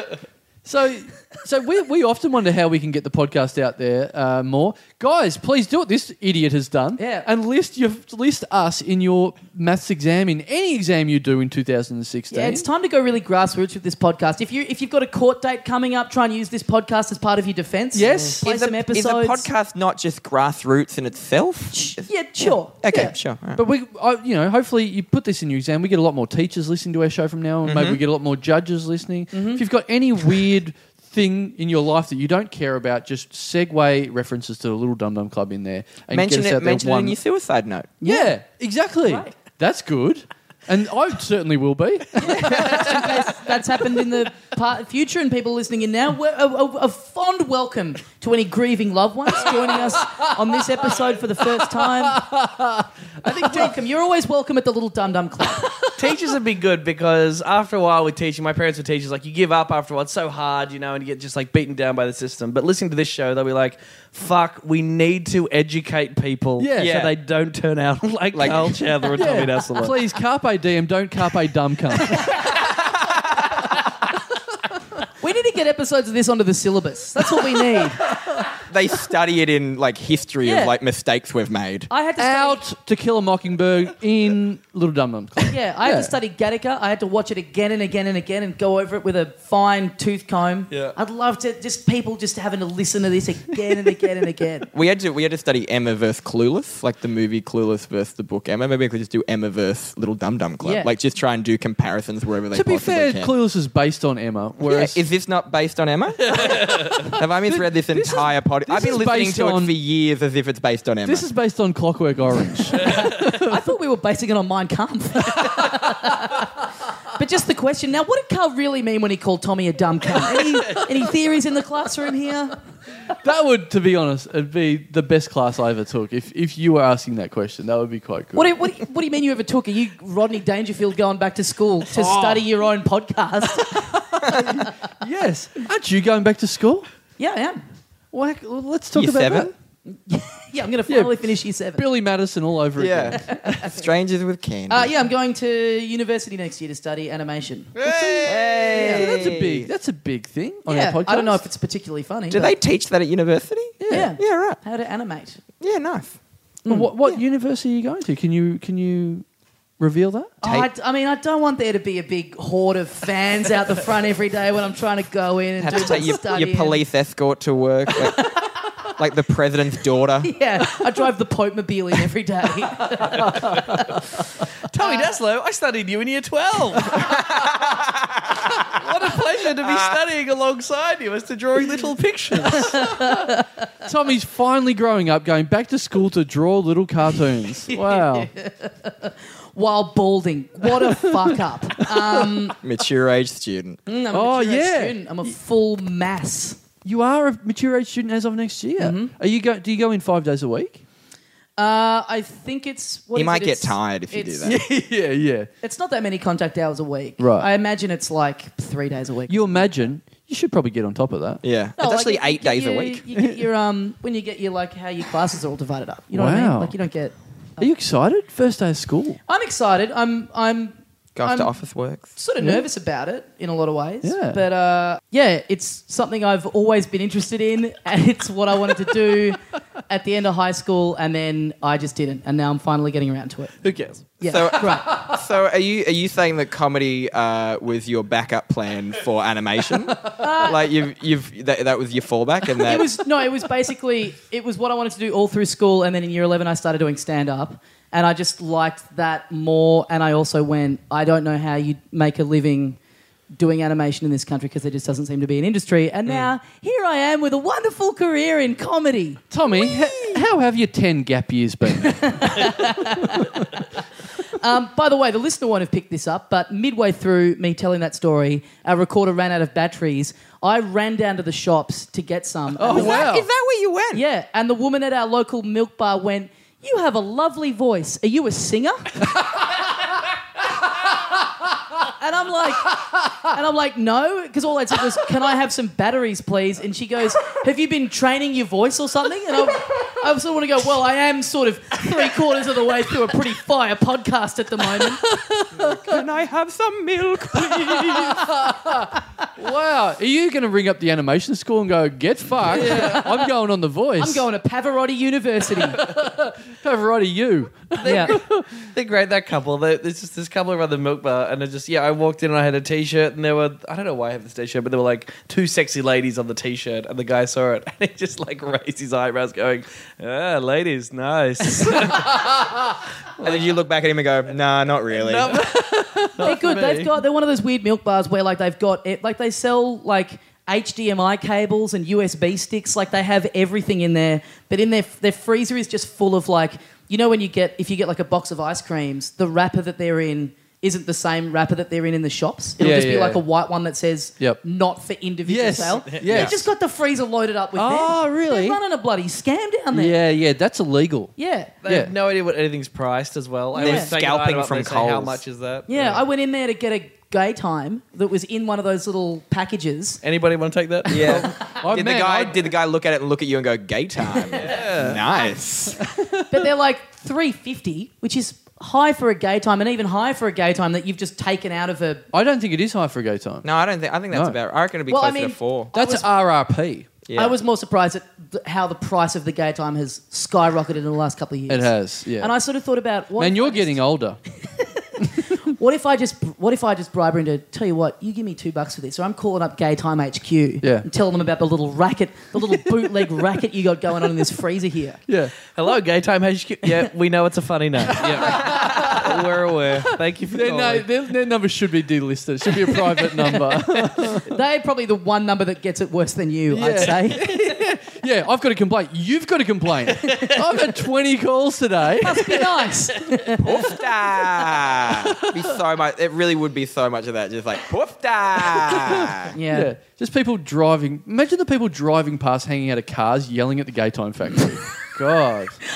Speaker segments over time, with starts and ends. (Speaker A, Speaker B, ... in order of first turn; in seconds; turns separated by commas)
Speaker A: 0.7-12.7, Speaker B: 7.0-7.3, Speaker B: 12.3-19.5, Speaker A: 17.9-18.4, Speaker C: 18.4-23.6, Speaker B: 21.7-23.1, Speaker A: 22.9-37.2, Speaker C: 27.6-28.0, Speaker B: 29.3-29.6, Speaker C: 36.1-37.9, Speaker B: 38.0-38.4, Speaker A: 38.0-43.4, Speaker B: 39.0-39.3, Speaker B: 42.2-52.2, Speaker C: 42.3-43.2, Speaker A: 50.5-50.8, Speaker A: 51.4-53.7, Speaker B: 53.2-55.7, Speaker D: 56.0-70.0, Speaker A: 66.6-67.0, Speaker C: 66.8-67.1, Speaker C: 68.3-68.9, Speaker A: 69.1-72.4, Speaker C: 72.3-73.8, Speaker B: 75.2-78.0, Speaker A: 77.6-77.8, Speaker C: 78.7-81.9, Speaker B: 80.4-80.7, Speaker B: 81.9-82.6, Speaker A: 82.2-86.1, Speaker B: 85.5-94.7, Speaker C: 94.7-103.3, Speaker B: 100.6-100.9, Speaker A: 102.5-105.0, Speaker C: 104.6-111.2, Speaker D: 106.4-106.8, Speaker A: 107.0-109.8, Speaker A: 111.0-113.6, Speaker B: 112.8-116.5, Speaker B: 117.1-122.6, Speaker A: 123.1-128.6, Speaker B: 128.3-134.7, Speaker A: 131.9-132.4, Speaker A: 133.5-136.9, Speaker C: 134.3-134.6, Speaker B: 137.2-137.6, Speaker A: 138.1-139.5, Speaker C: 138.9-139.5, Speaker B: 139.9-141.8, Speaker A: 140.9-143.3, Speaker C: 142.8-144.9, Speaker B: 143.2-143.7, Speaker B: 144.7-147.8, Speaker D: 147.8-148.4, Speaker A: 147.8-151.4, Speaker C: 148.2-149.7, Speaker B: 148.5-149.3, Speaker B: 150.7-152.6, Speaker C: 152.3-154.6, Speaker A: 153.8-154.1, Speaker B: 153.9-155.4, Speaker C: 155.6-156.2, Speaker B: 156.7-156.9, Speaker A: 156.7-159.2, Speaker A: 159.8-160.4, Speaker B: 160.4-166.8, Speaker C: 160.4-160.7, Speaker C: 165.6-168.4, Speaker B: 168.0-168.6, Speaker C: 169.0-170.3, Speaker B: 170.2-174.0, Speaker D: 173.2-173.8, Speaker D: 174.7-177.1, Speaker B: 174.8-175.2, Speaker C: 176.9-178.8, Speaker D: 178.7-182.8, Speaker C: 179.6-180.0, Speaker B: 182.6-183.5, Speaker A: 182.8-188.3, Speaker B: 187.7-192.6, Speaker A: 190.8-192.2, Speaker C: 192.6-193.8, Speaker B: 193.9-196.6, Speaker A: 194.1-195.3, Speaker A: 196.8-200.8, Speaker B: 198.8-199.1, Speaker B: 201.6-204.6, Speaker C: 203.2-204.6, Speaker A: 204.4-205.5, Speaker B: 205.6-209.7, Speaker A: 207.2-207.5, Speaker A: 209.3-211.4, Speaker C: 211.4-213.0, Speaker B: 211.8-217.7, Speaker A: 216.1-216.8, Speaker A: 217.6-219.2, Speaker B: 219.3-221.5, Speaker C: 221.2-222.1, Speaker B: 222.2-233.6, Speaker A: 222.4-222.7, Speaker A: 224.0-224.4, Speaker D: 233.6-234.1, Speaker B: 234.2-234.9, Speaker C: 234.2-243.0, Speaker B: 240.1-240.7, Speaker B: 242.6-252.8, Speaker B: 253.3-259.2, Speaker A: 259.3-263.4, Speaker B: 261.8-263.6, Speaker B: 264.2-273.1, Speaker A: 272.6-273.3, Speaker C: 272.6-274.0, Speaker B: 273.9-279.2, Speaker B: 281.8-295.1, Speaker A: 294.8-295.7, Speaker C: 295.5-298.3, Speaker A: 297.3-304.2, Speaker B: 302.5-303.2, Speaker B: 304.0-305.8, Speaker A: 305.6-308.6, Speaker D: 307.8-322.3, Speaker B: 307.8-308.2, Speaker D: 323.2-323.6, Speaker C: 323.2-325.5, Speaker D: 324.9-326.9, Speaker A: 325.6-326.4, Speaker B: 326.2-350.0, Speaker A: 342.6-343.2, Speaker A: 345.3-346.4, Speaker C: 346.1-346.4, Speaker A: 347.6-348.6, Speaker A: 349.7-351.1, Speaker B: 351.2-351.6, Speaker D: 351.6-356.0, Speaker A: 351.7-351.9, Speaker C: 353.6-355.2, Speaker B: 353.6-353.9, Speaker B: 355.7-360.0, Speaker D: 360.0-361.3, Speaker C: 360.9-365.8, Speaker B: 361.1-361.4, Speaker A: 361.4-362.5, Speaker D: 364.4-365.0, Speaker A: 365.8-366.5, Speaker B: 366.1-372.0, Speaker A: 372.1-373.4, Speaker C: 373.4-375.7, Speaker A: 374.1-374.4, Speaker B: 374.9-376.1, Speaker A: 375.7-376.9, Speaker C: 377.1-377.4, Speaker B: 377.1-383.8, Speaker A: 381.5-382.3, Speaker A: 383.2-384.2, Speaker B: 384.4-395.0, Speaker A: 395.1-395.3, Speaker D: 395.5-400.9, Speaker A: 397.9-399.2, Speaker A: 400.3-404.3, Speaker B: 403.5-407.7, Speaker A: 406.5-412.8, Speaker B: 410.0-410.7, Speaker B: 412.0-413.7, Speaker C: 413.4-419.4, Speaker A: 414.9-415.4, Speaker A: 418.4-425.6, Speaker B: 419.3-419.7